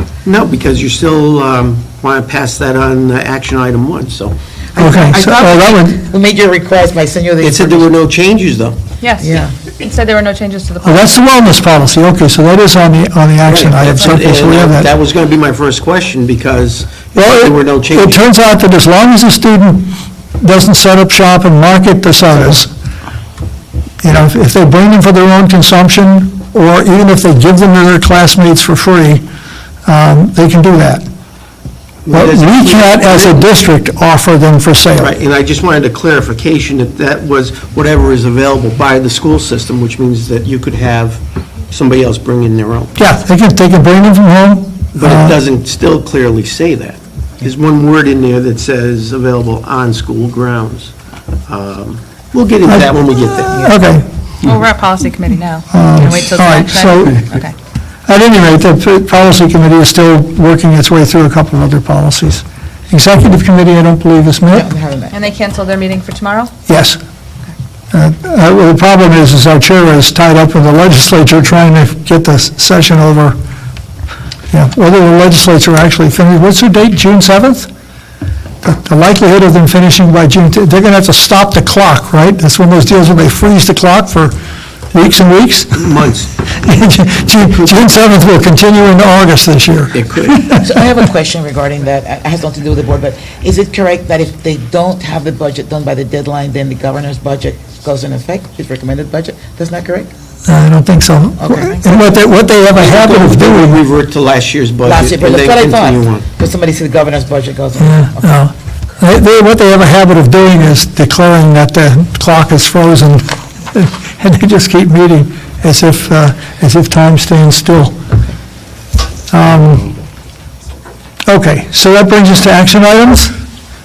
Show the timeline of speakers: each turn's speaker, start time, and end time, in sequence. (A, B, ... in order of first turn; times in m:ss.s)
0:00.3-0:04.4 A
0:04.7-0:07.9 B
0:04.8-0:06.0 C
0:07.4-0:08.8 A
0:09.0-0:11.1 D
0:09.2-0:09.5 B
0:10.8-0:14.9 C
0:13.5-0:18.2 A
0:17.1-0:22.7 C
0:24.0-0:29.2 C
0:29.8-0:31.0 C
0:32.0-0:33.5 A
0:32.1-0:35.1 C
0:35.0-0:43.0 A
0:43.0-0:45.4 C
0:44.9-0:50.9 A
0:51.5-0:53.6 A
0:52.7-0:53.0 C
0:53.5-0:54.0 C
0:54.4-0:57.5 D
0:55.7-0:57.3 C
0:58.1-1:04.6 C
1:04.5-1:05.2 B
1:05.1-1:06.5 D
1:06.7-1:07.0 C
1:07.9-1:13.4 C
1:14.5-1:17.7 C
1:18.6-1:24.3 C
1:24.9-1:25.9 C
1:25.7-1:26.3 A
1:26.5-1:30.7 C
1:29.9-1:30.4 A
1:30.6-1:40.1 B
1:40.5-1:43.8 C
1:41.4-1:41.8 B
1:42.7-1:46.2 A
1:44.8-1:48.4 B
1:47.8-1:58.0 C
1:59.3-1:59.9 C
2:01.2-2:03.3 C